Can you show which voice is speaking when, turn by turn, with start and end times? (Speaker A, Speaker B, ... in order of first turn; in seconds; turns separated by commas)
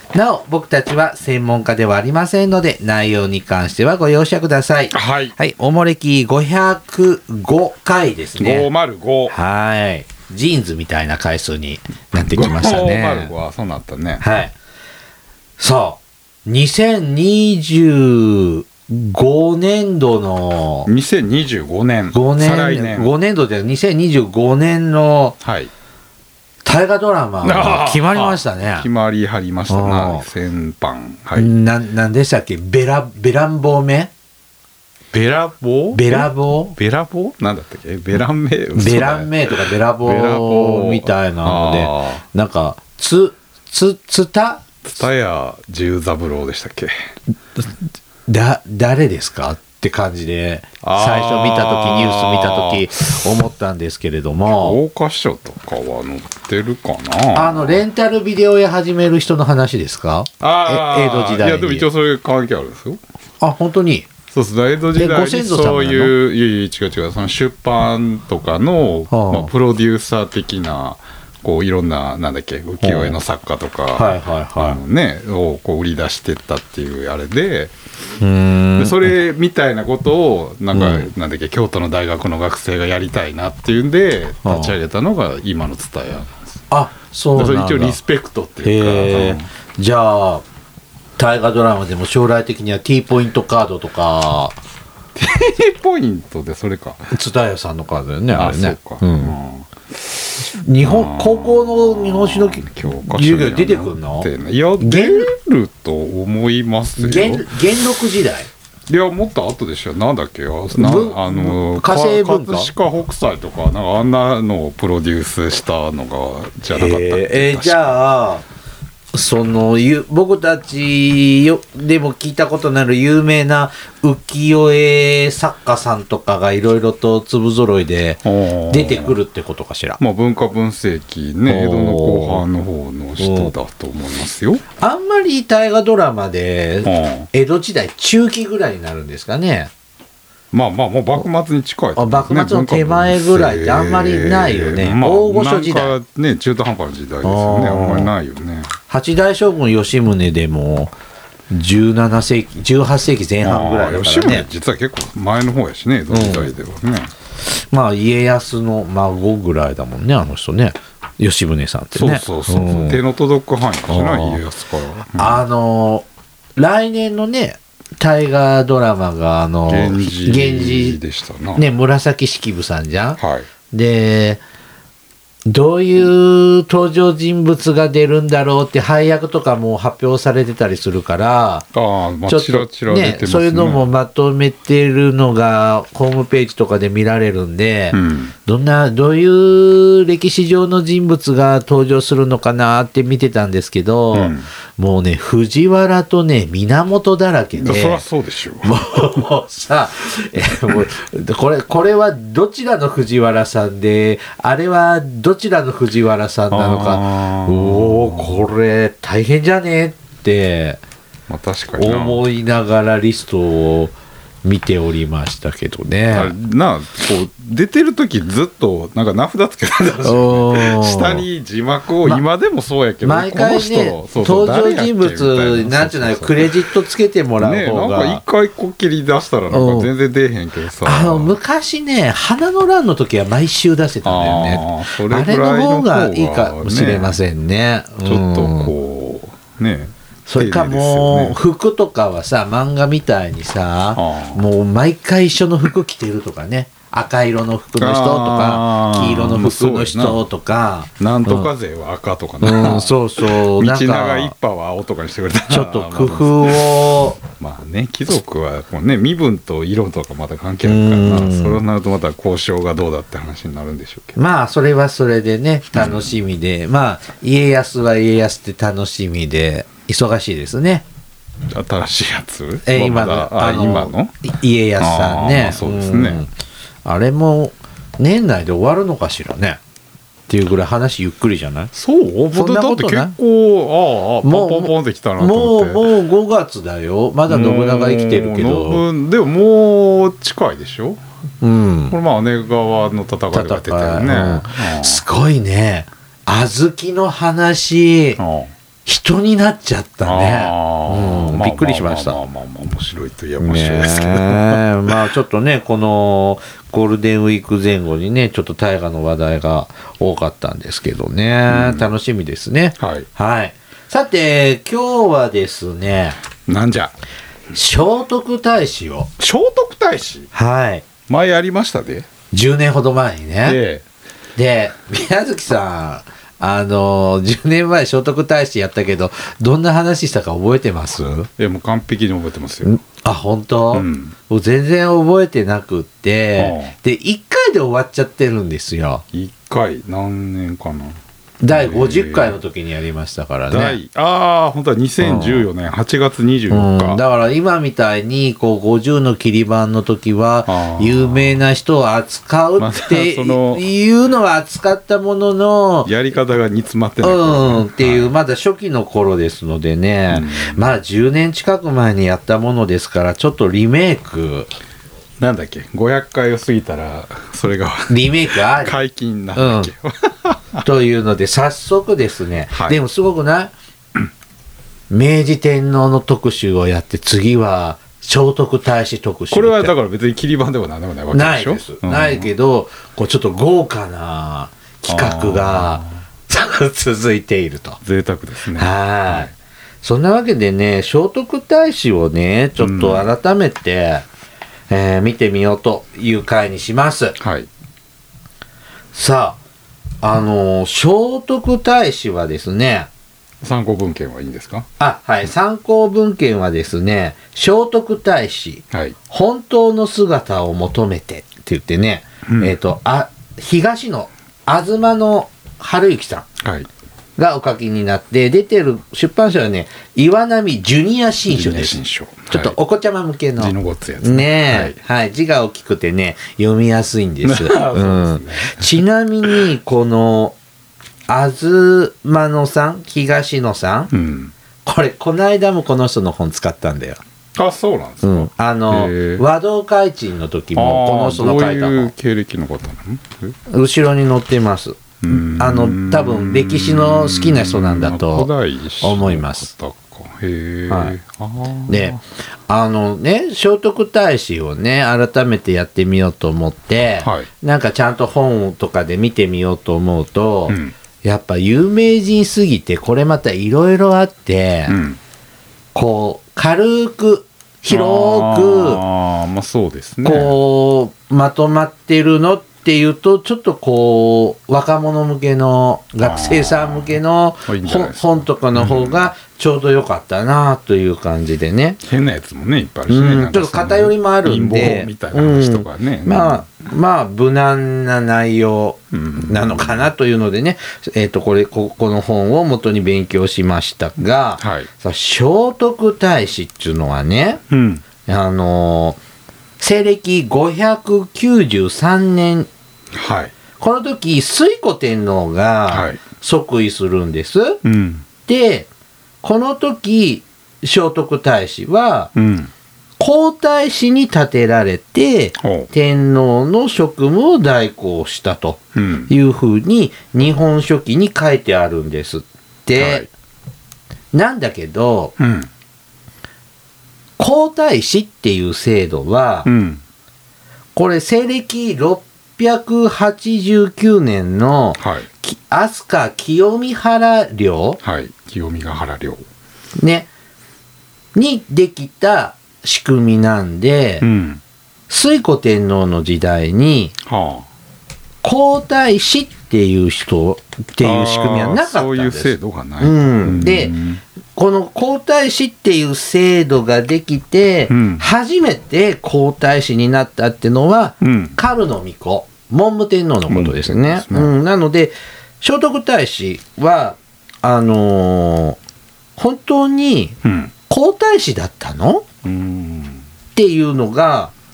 Speaker A: 0.1-8.7, Speaker B: 4.9-5.3, Speaker B: 8.4-9.3, Speaker A: 9.3-13.3, Speaker B: 12.2-14.2, Speaker A: 14.2-14.5, Speaker A: 15.6-20.9, Speaker B: 20.9-23.1, Speaker A: 22.1-25.4, Speaker B: 25.4-25.7, Speaker A: 26.6-28.9, Speaker B: 27.4-31.5, Speaker A: 29.7-30.2, Speaker A: 31.4-34.1, Speaker B: 35.1-42.2, Speaker A: 35.9-36.8, Speaker A: 38.7-44.7, Speaker B: 44.8-47.0, Speaker A: 48.3-54.8, Speaker B: 50.8-53.3, Speaker B: 54.5-57.8, Speaker A: 57.3-61.9, Speaker B: 60.4-63.0, Speaker A: 63.4-64.1, Speaker B: 64.3-77.7, Speaker A: 64.9-66.1, Speaker A: 69.1-69.5, Speaker A: 72.8-73.2, Speaker A: 73.9-74.8, Speaker A: 78.2-79.1, Speaker B: 78.8-86.4, Speaker A: 80.7-81.1, Speaker A: 84.4-84.8, Speaker A: 86.7-88.0, Speaker B: 87.3-89.5, Speaker A: 88.6-90.4, Speaker A: 91.2-94.6, Speaker B: 95.2-97.1, Speaker A: 97.1-99.3, Speaker B: 98.3-107.5, Speaker A: 100.4-104.3, Speaker A: 104.8-105.3, Speaker A: 107.0-108.5, Speaker B: 108.9-118.0, Speaker A: 110.7-112.7, Speaker A: 116.7-118.4, Speaker A: 119.1-130.0, Speaker B: 128.2-129.2, Speaker B: 130.0-134.6, Speaker A: 131.5-132.4, Speaker A: 133.2-133.5, Speaker A: 134.8-139.7, Speaker B: 136.8-137.3, Speaker B: 140.5-148.7, Speaker A: 142.0-145.9, Speaker A: 147.2-148.1, Speaker A: 148.9-150.9, Speaker A: 151.5-154.5, Speaker B: 153.4-157.1, Speaker A: 156.1-156.5, Speaker A: 157.5-163.0, Speaker B: 161.9-165.4, Speaker A: 163.9-164.4, Speaker A: 165.2-166.1, Speaker A: 166.6-171.0, Speaker B: 169.7-171.7, Speaker A: 171.6-173.2, Speaker B: 173.2-173.5, Speaker A: 173.7-174.4, Speaker A: 175.5-181.7, Speaker B: 181.7-183.8, Speaker A: 182.3-198.0, Speaker B: 187.9-188.3, Speaker B: 194.1-194.5, Speaker B: 197.6-199.2, Speaker A: 198.6-210.8, Speaker B: 206.5-208.5, Speaker B: 211.3-212.2, Speaker A: 211.8-213.9, Speaker A: 214.4-216.3, Speaker B: 216.1-226.7, Speaker A: 220.0-221.2, Speaker A: 223.0-228.2, Speaker B: 227.4-231.4, Speaker A: 229.5-229.9, Speaker A: 230.8-238.7, Speaker B: 234.0-237.2, Speaker B: 238.1-241.4, Speaker A: 240.3-251.5, Speaker B: 243.9-244.4, Speaker B: 247.8-250.2, Speaker B: 251.0-256.7, Speaker A: 252.4-254.3, Speaker A: 255.5-257.2, Speaker B: 257.4-264.2, Speaker A: 260.6-261.6, Speaker A: 264.2-270.9, Speaker B: 265.7-266.2, Speaker B: 271.5-274.1, Speaker A: 272.6-276.3, Speaker B: 274.8-276.2, Speaker A: 276.9-279.6, Speaker A: 280.3-281.7, Speaker B: 281.7-285.9, Speaker A: 282.3-283.1, Speaker A: 284.2-288.8, Speaker B: 287.3-291.0, Speaker A: 291.4-291.9, Speaker B: 291.9-295.0, Speaker A: 293.3-298.2, Speaker B: 298.2-298.5, Speaker A: 298.9-302.2, Speaker B: 300.0-305.0, Speaker A: 303.4-316.2, Speaker B: 311.5-311.9, Speaker B: 312.8-313.1, Speaker B: 316.4-316.9, Speaker A: 317.5-319.1, Speaker B: 319.2-320.3, Speaker A: 320.3-320.9, Speaker B: 321.1-322.1, Speaker A: 322.3-323.6, Speaker B: 323.4-323.8, Speaker A: 324.4-331.3, Speaker B: 331.4-332.8, Speaker A: 332.6-339.0, Speaker B: 333.7-334.1, Speaker B: 336.4-336.7, Speaker B: 339.1-341.0, Speaker A: 341.4-343.8, Speaker B: 341.5-342.4, Speaker B: 343.5-347.0, Speaker A: 345.0-345.5, Speaker A: 346.5-355.9, Speaker B: 350.5-351.4, Speaker B: 352.6-353.6, Speaker B: 355.9-358.1, Speaker A: 357.0-364.5, Speaker B: 360.1-360.6, Speaker B: 365.2-370.6, Speaker A: 367.9-368.8, Speaker A: 369.4-369.7, Speaker A: 370.6-373.5, Speaker B: 372.5-372.8, Speaker A: 374.9-379.7, Speaker B: 379.3-382.3, Speaker A: 381.1-387.8, Speaker B: 384.9-385.9, Speaker B: 387.8-389.3, Speaker A: 388.6-394.0, Speaker B: 392.6-393.1, Speaker A: 394.7-397.2, Speaker B: 397.2-397.5, Speaker A: 398.9-399.4, Speaker A: 400.0-402.9, Speaker B: 403.4-404.7, Speaker A: 404.8-416.3, Speaker B: 412.2-412.5, Speaker B: 416.4-416.7, Speaker A: 417.2-421.8, Speaker B: 421.3-422.6, Speaker A: 422.3-430.4, Speaker B: 423.4-424.8, Speaker B: 427.2-429.4, Speaker A: 431.1-433.9, Speaker B: 433.9-434.3, Speaker A: 434.6-437.0, Speaker B: 437.4-439.2, Speaker A: 438.0-441.9, Speaker B: 440.5-443.4, Speaker A: 443.5-448.3, Speaker B: 445.0-452.0, Speaker A: 448.8-449.5, Speaker A: 450.7-450.9, Speaker A: 451.7-451.9, Speaker A: 452.5-464.8, Speaker B: 457.0-457.3, Speaker B: 460.5-460.8, Speaker B: 464.7-465.0, Speaker A: 465.7-468.8, Speaker B: 467.7-470.4, Speaker A: 470.0-481.8, Speaker B: 476.0-479.1, Speaker B: 481.8-486.4, Speaker A: 482.9-497.4, Speaker B: 488.9-489.8, Speaker B: 494.4-494.7, Speaker B: 497.5-497.8, Speaker A: 498.0-499.0, Speaker A: 499.6-502.5, Speaker B: 502.9-503.3, Speaker A: 503.6-507.6, Speaker B: 505.7-506.0, Speaker B: 507.6-508.0, Speaker A: 508.2-508.7, Speaker A: 509.2-512.1, Speaker B: 512.1-512.5, Speaker A: 513.0-523.1, Speaker B: 515.4-515.7, Speaker B: 518.8-519.1, Speaker B: 522.8-523.1, Speaker A: 524.1-525.1, Speaker B: 525.2-525.5, Speaker A: 527.2-529.5, Speaker B: 529.5-529.8, Speaker A: 530.8-537.8, Speaker B: 534.8-535.1, Speaker B: 537.8-539.2, Speaker A: 539.8-540.1, Speaker A: 541.1-544.0, Speaker B: 544.0-544.4, Speaker A: 544.9-547.0, Speaker B: 547.0-547.5, Speaker A: 548.2-553.8, Speaker B: 550.8-554.0, Speaker A: 554.4-568.6, Speaker B: 557.7-558.0, Speaker B: 561.0-561.4, Speaker B: 563.3-564.3, Speaker A: 569.2-572.0, Speaker B: 570.2-570.5, Speaker B: 572.2-573.0, Speaker A: 573.4-574.3